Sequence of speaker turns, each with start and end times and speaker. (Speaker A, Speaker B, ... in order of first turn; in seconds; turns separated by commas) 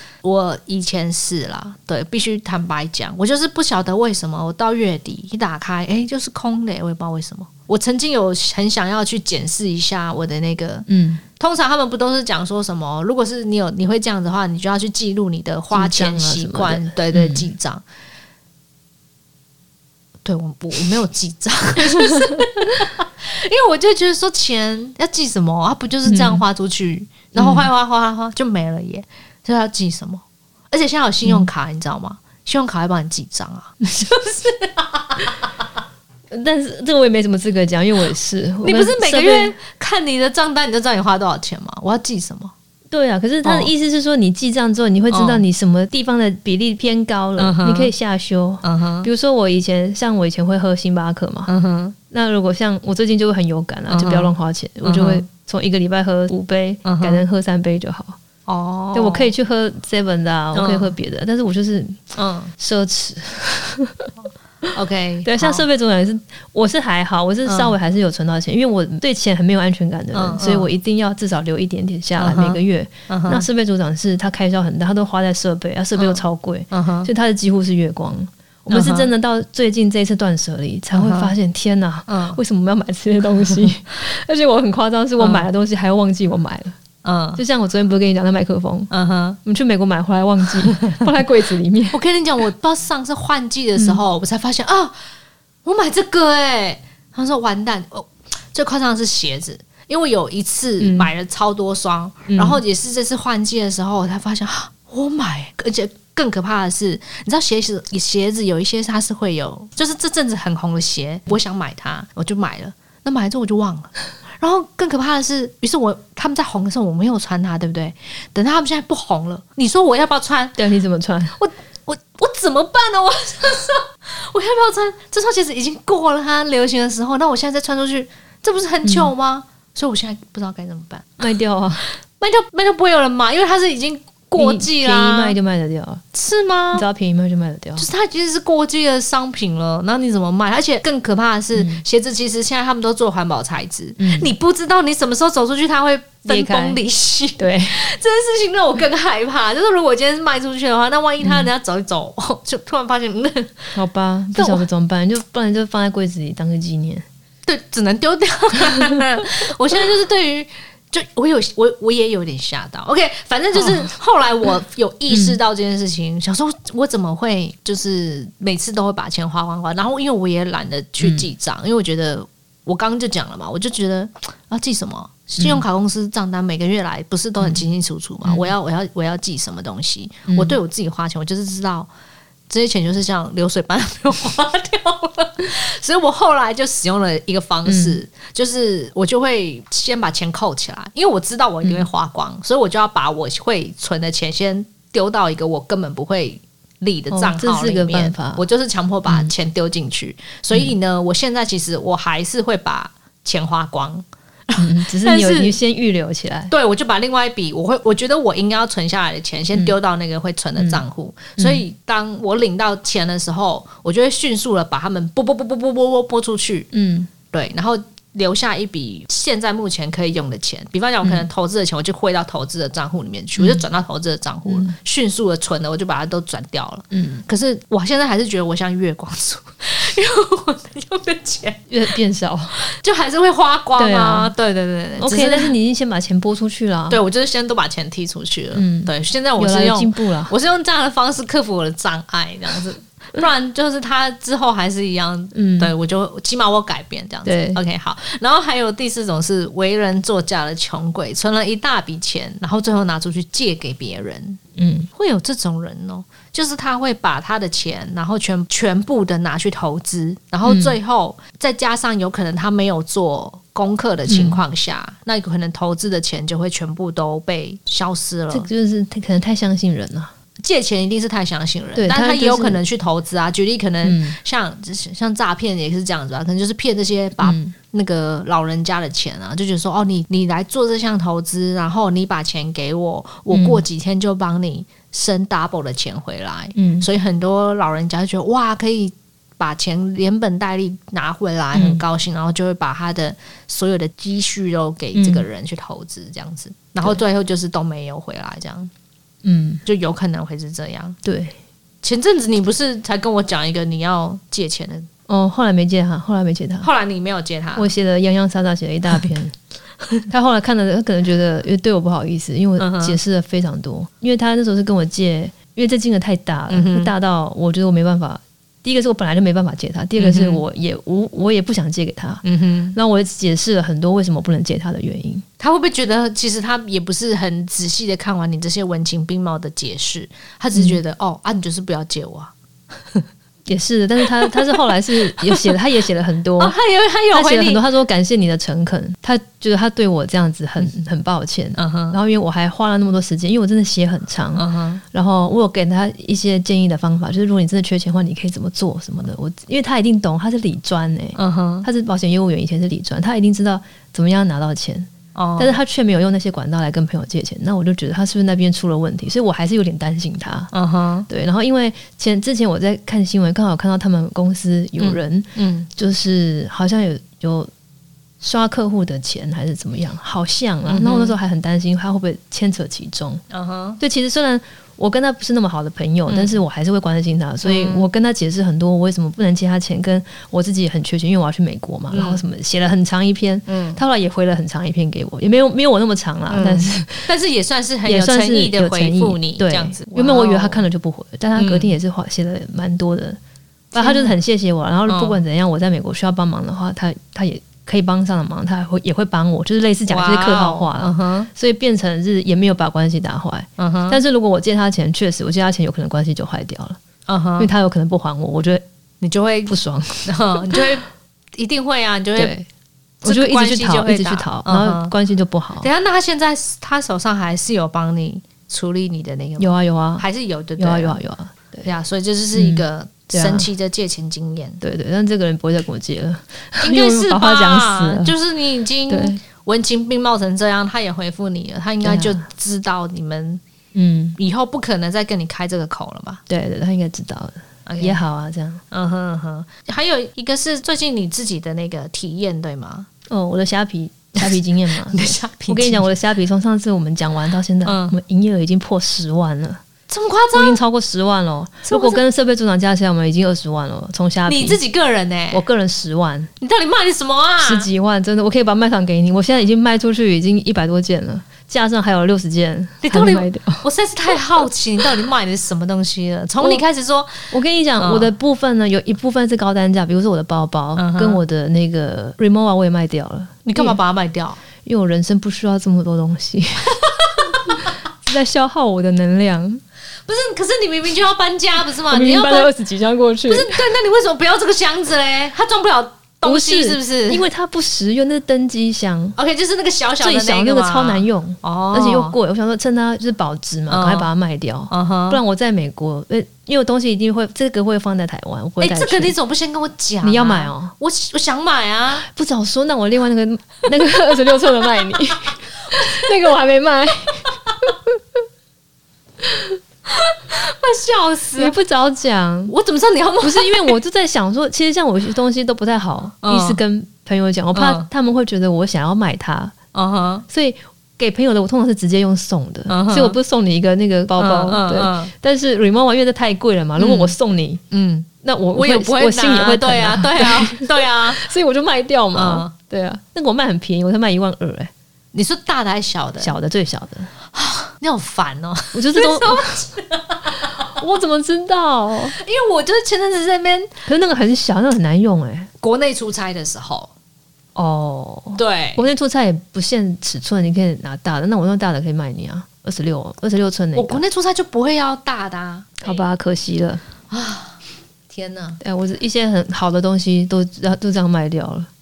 Speaker A: 0.2-10.9, Speaker B: 10.9-11.2, Speaker A: 11.4-17.8, Speaker B: 15.7-17.5, Speaker A: 20.2-35.5, Speaker B: 26.1-26.4, Speaker B: 27.3-27.7, Speaker B: 36.3-39.6, Speaker A: 38.6-42.5, Speaker B: 42.9-51.5, Speaker A: 43.4-43.7, Speaker A: 45.1-45.4, Speaker A: 47.4-47.9, Speaker A: 48.6-49.1, Speaker A: 51.5-52.0, Speaker B: 52.1-58.2, Speaker A: 53.9-55.2, Speaker A: 56.9-57.2, Speaker A: 58.5-59.3, Speaker B: 58.9-64.1, Speaker A: 60.5-61.0, Speaker A: 62.1-62.5, Speaker A: 64.7-65.7, Speaker B: 65.2-86.8, Speaker A: 67.5-67.8, Speaker A: 70.1-70.7, Speaker A: 72.2-73.5, Speaker A: 76.0-77.1, Speaker A: 78.7-79.1, Speaker A: 80.9-81.3, Speaker A: 82.1-82.4, Speaker A: 85.2-85.5, Speaker A: 87.0-87.4, Speaker B: 87.4-88.9, Speaker A: 88.9-89.4, Speaker B: 89.5-92.0, Speaker A: 90.6-91.1, Speaker A: 91.9-95.0, Speaker B: 93.8-94.0, Speaker A: 95.7-120.6, Speaker B: 100.8-101.1, Speaker B: 102.3-102.6, Speaker B: 120.6-121.4, Speaker A: 121.4-131.2, Speaker B: 128.8-129.1, Speaker B: 131.2-131.9, Speaker A: 132.1-135.4, Speaker B: 134.4-136.0, Speaker A: 136.1-136.9, Speaker B: 136.7-137.9, Speaker A: 137.8-153.8, Speaker B: 141.6-141.8, Speaker B: 144.0-144.3, Speaker B: 146.3-146.8, Speaker B: 147.4-147.8, Speaker B: 151.2-151.5, Speaker B: 153.8-157.1, Speaker A: 154.3-154.7, Speaker A: 157.5-181.9, Speaker B: 165.1-165.4, Speaker B: 171.0-171.3, Speaker B: 178.2-178.5, Speaker B: 180.3-180.6, Speaker A: 182.5-205.6, Speaker B: 187.7-188.0, Speaker B: 197.1-198.4, Speaker B: 199.1-199.3, Speaker B: 204.6-206.5, Speaker A: 206.5-216.7, Speaker B: 210.6-210.8, Speaker B: 211.4-211.6, Speaker B: 216.7-217.1, Speaker A: 217.3-231.6, Speaker B: 223.4-223.6, Speaker B: 224.5-224.8, Speaker B: 226.9-227.2, Speaker B: 231.7-232.6, Speaker A: 232.6-235.6, Speaker B: 233.8-234.3, Speaker B: 235.0-237.0, Speaker A: 236.9-254.4, Speaker B: 238.5-240.3, Speaker B: 245.3-245.7, Speaker B: 247.2-247.6, Speaker B: 254.6-254.9, Speaker A: 254.9-268.5, Speaker B: 260.4-260.8, Speaker B: 264.1-264.4, Speaker B: 268.3-270.1, Speaker A: 270.4-298.7, Speaker B: 271.8-272.6, Speaker B: 273.8-274.2, Speaker B: 277.2-277.6, Speaker B: 283.3-283.6, Speaker B: 286.6-286.9, Speaker B: 291.5-291.8, Speaker B: 294.9-295.3, Speaker B: 299.2-299.6, Speaker A: 299.6-301.0, Speaker B: 301.0-301.4, Speaker A: 301.8-304.9, Speaker B: 305.1-306.7, Speaker A: 306.6-307.7, Speaker B: 307.6-309.4, Speaker B: 310.1-325.2, Speaker A: 312.6-313.0, Speaker A: 316.5-316.9, Speaker A: 320.0-320.4, Speaker A: 322.2-322.8, Speaker A: 325.4-333.1, Speaker B: 330.5-330.8, Speaker B: 333.5-336.6, Speaker A: 334.0-334.6, Speaker A: 335.1-335.6, Speaker A: 336.4-337.6, Speaker B: 337.1-360.5, Speaker A: 341.6-342.0, Speaker A: 344.4-344.8, Speaker A: 351.2-351.7, Speaker A: 355.1-355.6, Speaker A: 360.5-361.1, Speaker B: 361.1-367.5, Speaker A: 364.8-365.7, Speaker B: 368.2-373.2, Speaker A: 370.7-371.2, Speaker A: 373.3-373.8, Speaker B: 373.8-387.1, Speaker A: 376.1-376.4, Speaker A: 377.4-377.9, Speaker A: 381.9-382.2, Speaker A: 383.5-383.8, Speaker A: 386.3-390.6, Speaker B: 387.9-393.2, Speaker A: 391.4-391.7, Speaker A: 393.7-394.2, Speaker B: 393.7-406.8, Speaker A: 394.9-395.2, Speaker A: 399.9-401.3, Speaker A: 403.6-404.0, Speaker A: 407.1-407.5, Speaker B: 407.4-408.6, Speaker A: 409.0-410.8, Speaker B: 409.5-410.7, Speaker A: 411.4-412.3, Speaker B: 412.2-412.5, Speaker A: 413.0-414.9, Speaker B: 413.0-415.7, Speaker A: 415.6-421.0, Speaker B: 419.4-420.1, Speaker B: 420.6-421.7, Speaker A: 421.6-424.6, Speaker B: 422.3-423.5, Speaker B: 424.6-428.2, Speaker A: 426.6-433.4, Speaker B: 428.9-429.2, Speaker B: 431.8-432.3, Speaker B: 433.8-434.2, Speaker A: 434.2-436.2, Speaker B: 436.3-438.6, Speaker A: 437.7-438.0, Speaker A: 438.7-442.9, Speaker B: 443.1-449.6, Speaker A: 444.2-445.9, Speaker A: 447.6-447.9, Speaker A: 449.9-450.6, Speaker B: 450.3-454.6, Speaker A: 451.7-452.0, Speaker A: 454.3-455.4, Speaker B: 455.3-456.3, Speaker A: 456.4-457.7, Speaker B: 457.4-463.7, Speaker A: 462.8-468.1, Speaker B: 467.3-473.8, Speaker A: 470.8-471.2, Speaker A: 473.4-474.4, Speaker B: 474.6-476.8, Speaker A: 476.8-477.7, Speaker B: 477.3-479.6, Speaker A: 480.1-482.5, Speaker B: 481.9-483.6, Speaker A: 483.3-487.2, Speaker B: 486.2-489.2, Speaker A: 489.2-492.2, Speaker B: 490.0-499.2, Speaker A: 493.7-494.1, Speaker A: 494.7-495.2, Speaker A: 498.6-502.1, Speaker B: 500.0-500.7, Speaker B: 502.0-508.0, Speaker A: 505.3-506.0, Speaker B: 509.2-509.6, Speaker A: 509.9-511.6, Speaker B: 511.4-512.5, Speaker A: 512.5-513.8, Speaker B: 513.2-519.5, Speaker A: 516.2-516.6, Speaker A: 517.5-517.9, Speaker A: 519.7-520.3, Speaker B: 520.3-527.6, Speaker A: 522.7-523.2, Speaker A: 524.2-525.1, Speaker A: 526.8-527.2, Speaker A: 527.7-531.2, Speaker B: 528.2-534.7, Speaker A: 532.1-532.5, Speaker A: 535.1-536.3, Speaker B: 536.2-537.1, Speaker A: 537.3-540.7, Speaker B: 538.7-539.6, Speaker B: 540.5-542.2, Speaker A: 542.1-543.7, Speaker B: 543.9-545.5, Speaker A: 545.6-546.9, Speaker B: 547.6-554.0, Speaker A: 548.4-548.9, Speaker A: 553.8-556.0, Speaker B: 555.8-556.8, Speaker A: 557.1-558.6, Speaker B: 558.6-561.7